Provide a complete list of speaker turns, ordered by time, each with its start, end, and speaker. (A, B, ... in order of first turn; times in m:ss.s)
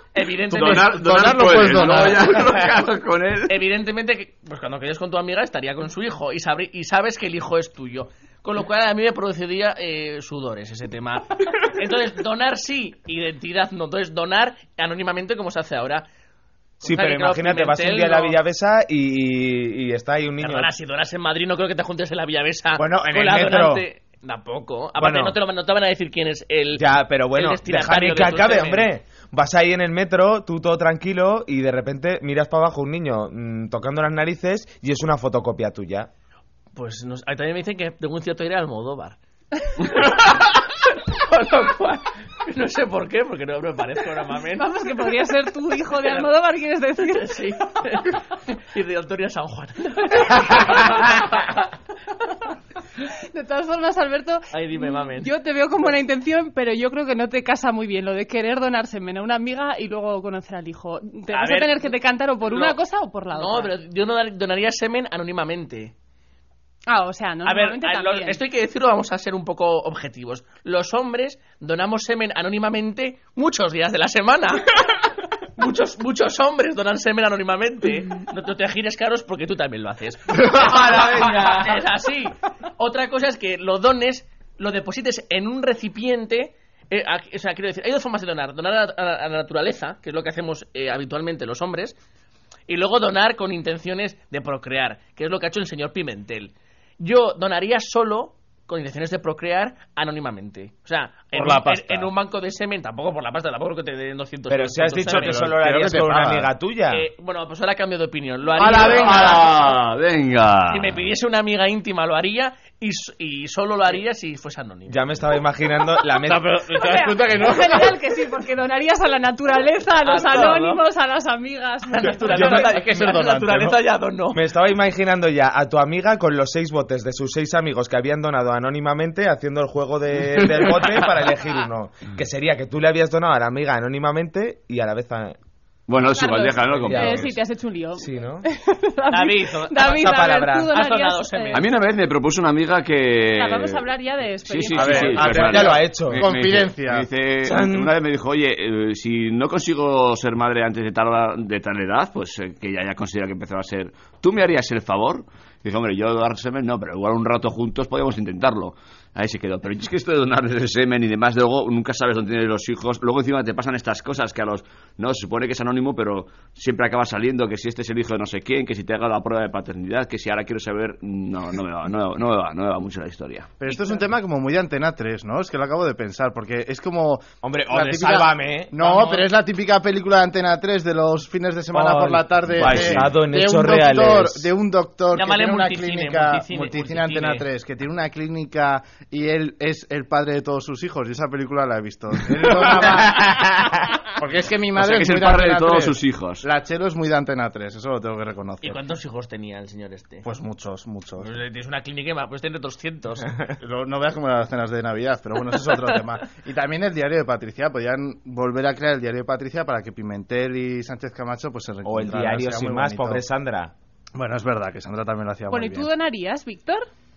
0:00.1-0:02.2 A
0:00.5-0:02.6 B
0:00.5-0:03.6 C
0:03.5-0:16.0 A
0:16.8-0:18.4 A
0:16.8-0:20.7 D
0:20.4-0:28.9 A
0:22.8-0:23.8 D
0:25.0-0:25.4 D
0:26.8-0:36.1 D
0:36.7-0:39.2 A
0:39.8-0:44.7 A
0:44.6-0:47.4 E
0:46.0-0:46.3 A
0:47.0-0:51.6 A
0:53.0-1:03.7 E
0:54.5-0:55.3 A
1:01.3-1:01.9 A
1:02.4-1:02.8 A
1:03.3-1:05.9 A
1:06.9-1:08.4 E
1:07.4-1:15.0 A
1:15.6-1:32.0 A
1:20.4-1:21.2 B
1:32.7-1:45.4 A
1:41.3-1:42.1 B
1:44.5-1:47.1 D
1:45.0-1:46.5 B
1:46.9-1:49.6 A
1:48.6-1:49.4 B
1:48.6-1:50.9 C
1:50.7-1:55.1 A
1:54.9-1:56.5 D
1:56.2-1:58.0 B
1:56.7-2:02.8 E
2:00.0-2:00.8 A
2:02.0-2:04.4 A
2:02.0-2:03.8 B
2:04.3-2:15.4 D
2:15.9-2:17.2 C
2:16.2-2:21.6 E
2:16.8-2:17.4 D
2:18.0-2:18.4 D
2:19.1-2:20.1 A
2:19.8-2:20.7 D
2:20.7-2:21.7 A
2:21.5-2:23.8 C
2:23.3-2:25.5 E
2:24.4-2:53.5 C
2:24.7-2:27.1 B
2:25.3-2:26.2 D
2:27.4-2:27.9 D
2:53.6-3:13.4 B
2:57.4-2:58.8 D
2:58.8-2:59.3 A
3:01.7-3:04.5 D
3:02.6-3:03.1 C
3:05.1-3:07.5 A
3:12.8-3:13.8 D
3:14.2-3:18.8 B
3:14.8-3:16.4 C
3:18.6-3:20.3 A
3:20.2-3:21.3 B
3:21.2-3:23.3 A
3:23.6-3:33.2 B
3:31.8-3:33.7 D
3:34.1-3:35.9 B
3:35.5-3:36.9 E